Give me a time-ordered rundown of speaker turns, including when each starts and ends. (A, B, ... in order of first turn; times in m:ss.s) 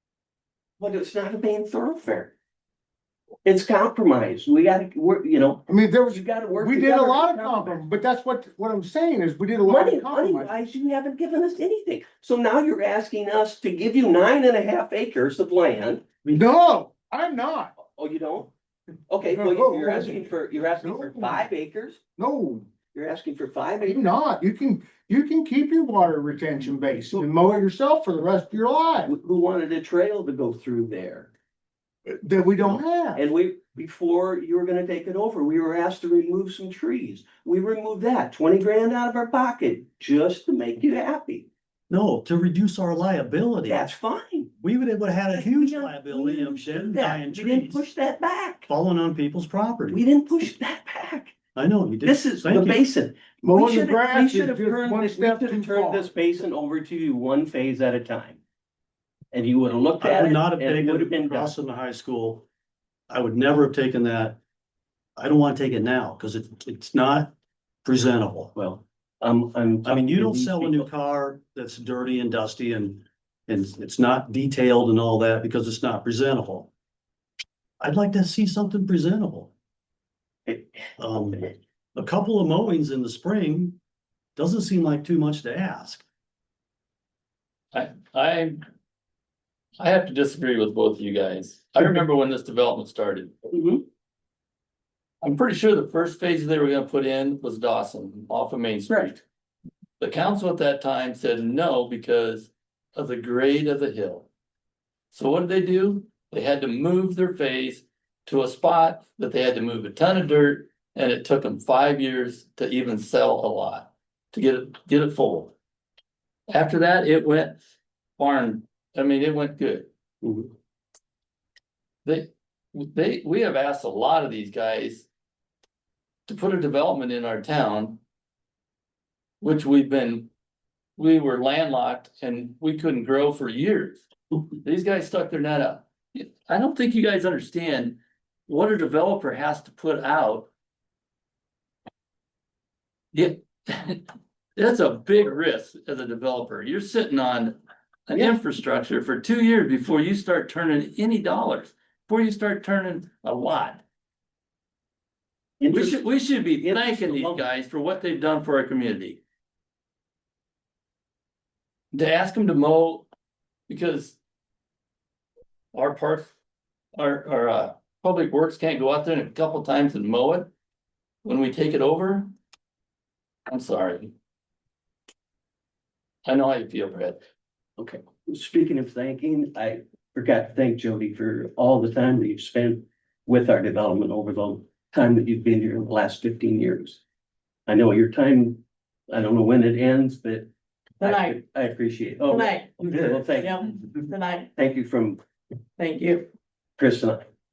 0:00.8-0:02.3 A
0:03.4-0:07.8 A
0:05.7-0:10.5 B
0:09.7-0:16.2 A
0:16.3-0:17.7 B
0:17.8-0:18.5 A
0:19.1-0:22.0 A
0:19.2-0:21.5 B
0:22.2-0:22.7 B
0:22.9-0:24.0 A
0:23.9-0:29.1 B
0:29.0-0:31.3 A
0:32.1-0:33.2 B
0:32.6-0:41.5 A
0:41.9-0:43.9 C
0:43.7-0:44.5 A
0:44.6-0:47.9 C
0:45.3-0:48.7 A
0:48.7-0:50.0 C
0:49.9-0:51.4 A
0:51.6-0:52.8 C
0:52.0-0:58.4 A
0:53.4-0:56.1 B
0:59.3-1:01.5 A
1:00.0-1:02.5 C
1:03.1-1:04.4 C
1:05.2-1:08.6 C
1:08.6-1:10.9 A
1:09.8-1:16.7 C
1:17.8-1:19.5 C
1:20.5-1:20.8 A
1:21.0-1:23.8 C
1:24.4-1:26.0 C
1:27.7-1:28.6 D
1:29.8-1:33.4 D
1:33.5-1:33.8 A
1:35.2-1:39.2 D
1:40.0-1:44.3 D
1:45.1-1:55.5 D
1:56.5-1:57.6 D
1:58.2-1:59.9 D
2:00.2-2:00.5 A
2:02.0-2:05.1 D
2:06.3-2:08.0 D
2:09.4-2:10.3 D
2:11.0-2:14.0 D
2:14.6-2:20.5 D
2:23.1-2:24.0 D
2:24.6-2:33.8 D
2:35.6-2:36.0 A
2:35.7-2:39.2 D
2:36.6-2:37.4 A
2:41.9-2:43.1 D
2:43.7-2:44.2 D
2:45.7-2:46.3 D
2:47.0-2:50.5 D
2:51.2-2:52.3 D
2:53.5-2:54.1 D
2:56.3-2:57.2 D
2:57.8-3:07.0 A
3:07.7-3:14.0 A
3:11.0-3:11.4 E
3:12.3-3:14.5 E
3:14.5-3:15.2 A
3:15.8-3:16.3 E
3:16.8-3:17.2 A